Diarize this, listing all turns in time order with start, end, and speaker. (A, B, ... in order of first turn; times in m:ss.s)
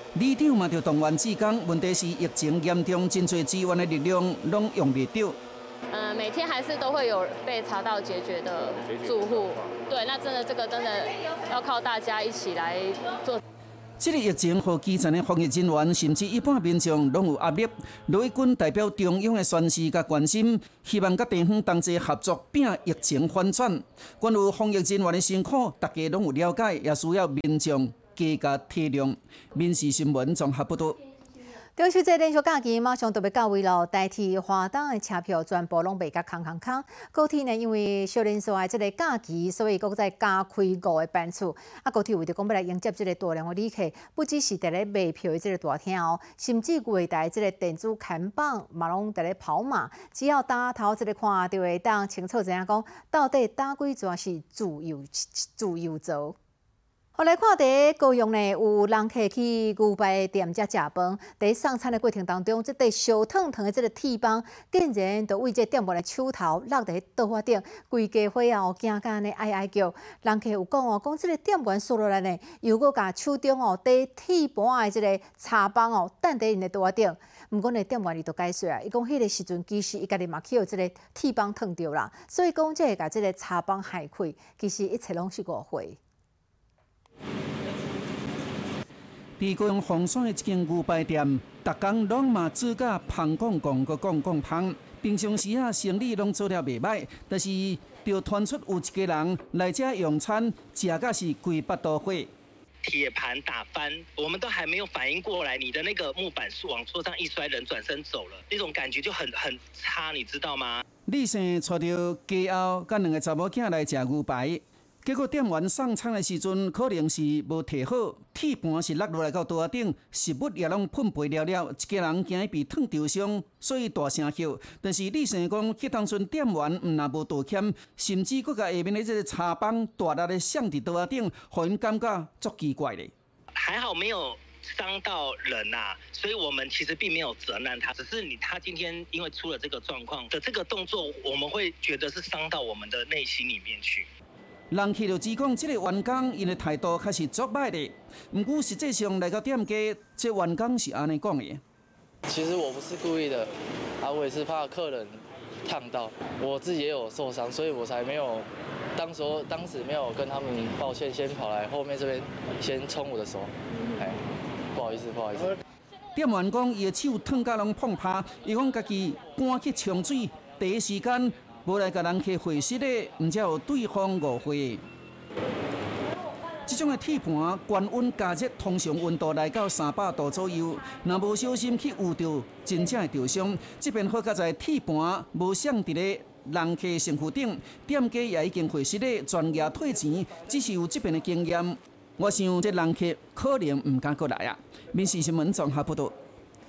0:00.1-0:05.4 A
0:05.9-0:13.4 B
0:14.0-0:31.0 A
0:31.8-0:56.3 C
0:57.2-1:26.0 C
1:29.4-1:42.3 A
1:42.8-1:50.8 D
1:51.1-2:13.1 A
2:13.6-2:24.1 D
2:24.7-2:31.6 A
2:32.3-2:44.2 E
2:44.7-2:45.6 E
2:46.1-2:54.8 A
2:56.7-3:16.1 A